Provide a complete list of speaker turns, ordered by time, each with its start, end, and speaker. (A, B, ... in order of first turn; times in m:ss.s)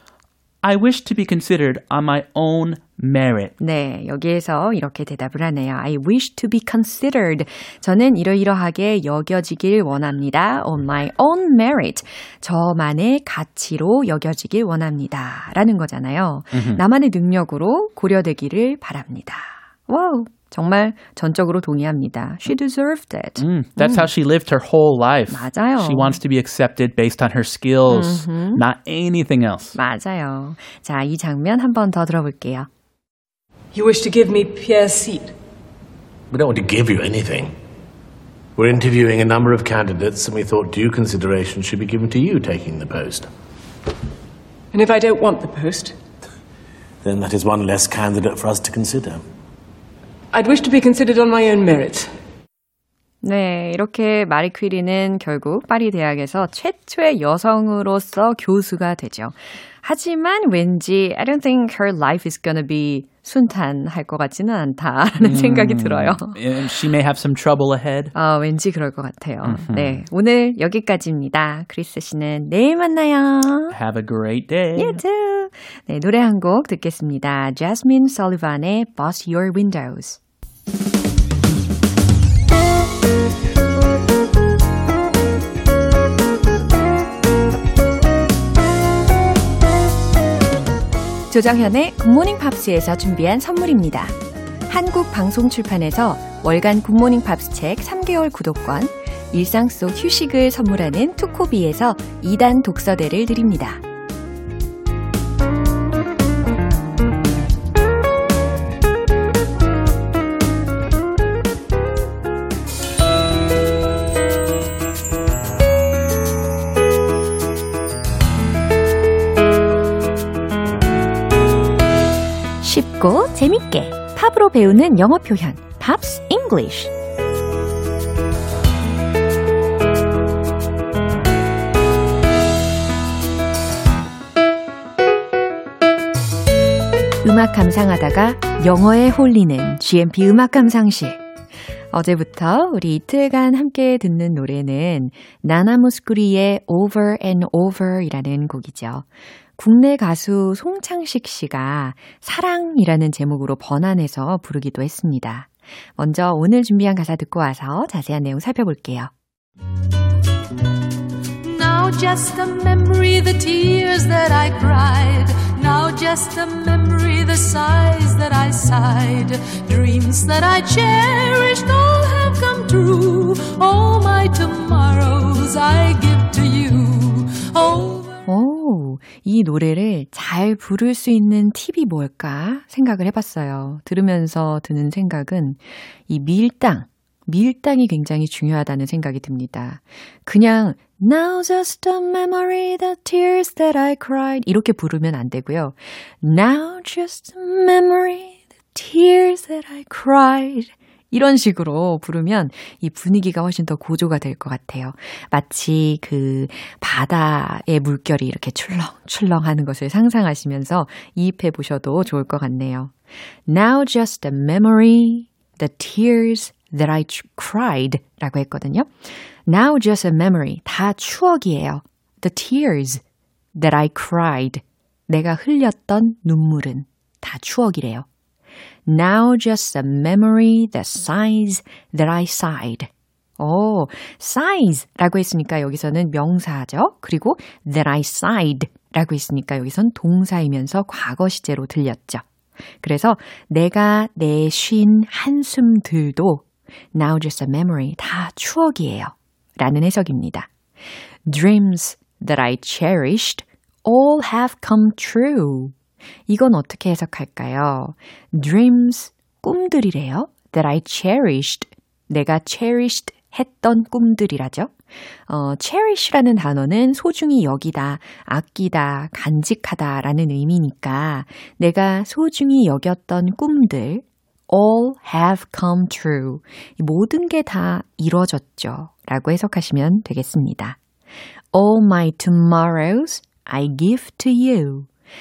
0:00.6-0:03.5 A
0:03.6-0:24.1 B
0:16.5-0:16.8 A
0:23.4-0:29.8 A
0:25.3-0:26.2 B
0:27.9-0:28.6 B
0:29.7-0:32.7 B
0:33.7-0:35.3 C
0:36.3-0:37.5 D
0:38.6-0:43.3 D
0:44.7-0:46.0 C
0:47.0-0:49.2 D
0:50.3-0:52.1 C
0:53.2-1:06.4 B
1:05.2-1:08.1 A
1:08.1-1:13.8 B
1:09.4-1:10.0 A
1:13.7-1:15.0 A
1:14.8-1:20.2 B
1:31.3-1:34.2 B
1:34.7-1:43.8 B
2:02.6-2:06.9 B
2:17.2-2:21.2 B
2:21.9-2:29.1 B
2:29.6-2:39.1 B
2:41.4-2:58.2 E
2:58.2-3:32.9 B
3:33.4-3:43.0 B
3:43.5-3:48.0 B
3:48.8-4:02.2 B
4:02.8-4:10.5 B
4:11.2-4:15.7 B
4:16.3-4:24.7 B
4:25.3-4:40.8 B
4:41.5-4:44.9 B